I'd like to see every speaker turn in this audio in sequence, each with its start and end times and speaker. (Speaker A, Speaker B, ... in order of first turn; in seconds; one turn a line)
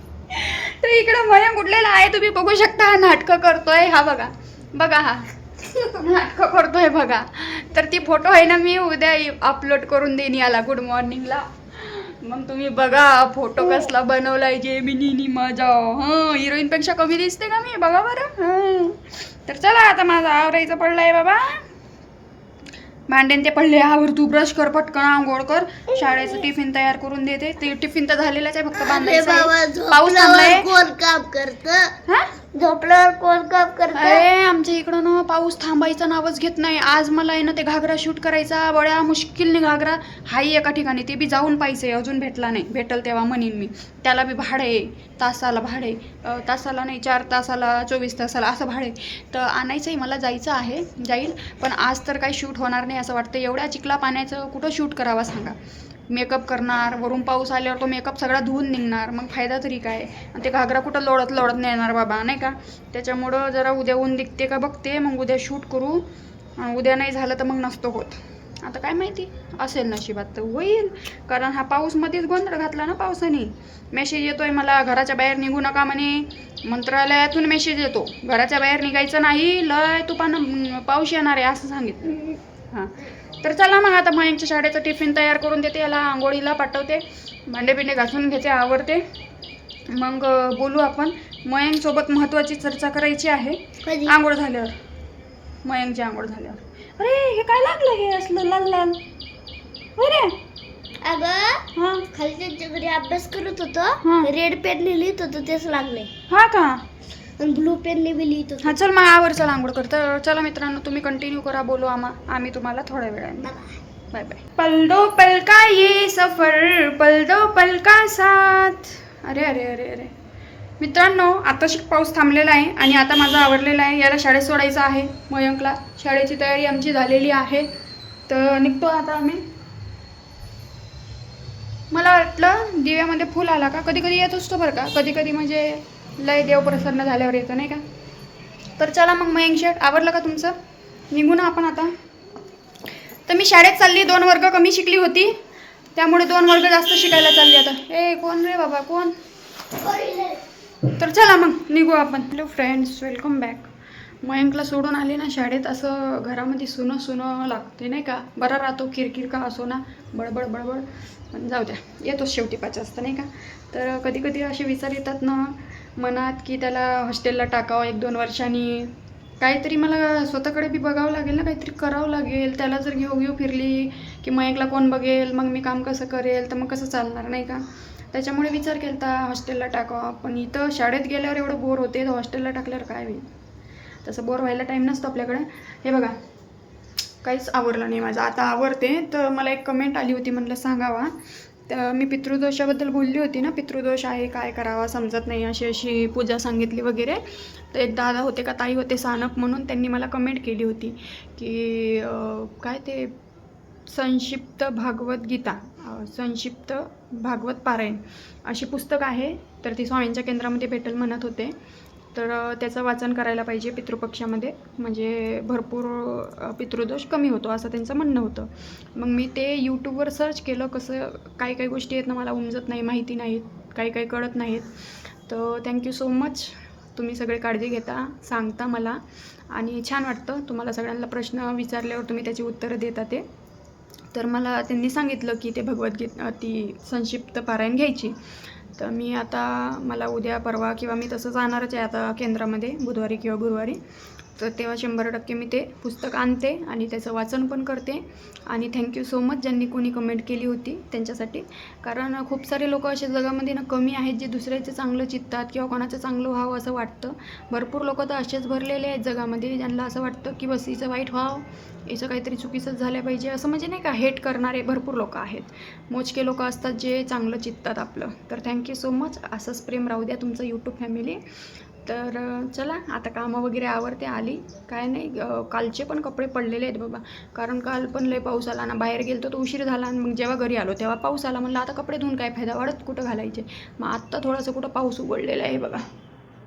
Speaker A: 0.3-21.6
Speaker A: 23.1-30.7
Speaker B: 28.8-31.9
Speaker B: 32.5-34.2
Speaker A: 33.9-55.6
Speaker A: 56.1-66.1
Speaker A: 66.6-89.0
Speaker A: 89.9-94.8
Speaker B: 93.8-94.2
Speaker A: 95.6-99.0
Speaker A: 100.0-100.4
Speaker B: 101.0-106.1
Speaker A: 101.8-102.1
Speaker A: 104.0-104.3
Speaker A: 106.3-106.8
Speaker B: 107.4-108.8
Speaker A: 108.6-113.5
Speaker B: 113.4-113.8
Speaker A: 114.1-120.1
Speaker A: 120.8-127.7
Speaker A: 128.3-129.4
Speaker A: 131.9-137.8
Speaker A: 138.8-140.6
Speaker A: 141.1-141.9
Speaker A: 143.3-145.3
Speaker A: 145.9-149.1
Speaker B: 149.8-150.4
Speaker A: 150.9-153.7
Speaker A: 154.2-183.3
Speaker A: 184.1-186.2
Speaker A: 187.2-191.1
Speaker A: 191.7-197.2
Speaker A: 197.7-203.1
Speaker A: 203.9-211.5
Speaker A: 212.2-224.7
Speaker A: 225.3-229.0
Speaker A: 229.5-233.2
Speaker A: 234.1-238.2
Speaker A: 238.8-243.8
Speaker A: 244.4-271.2
Speaker A: 271.9-285.8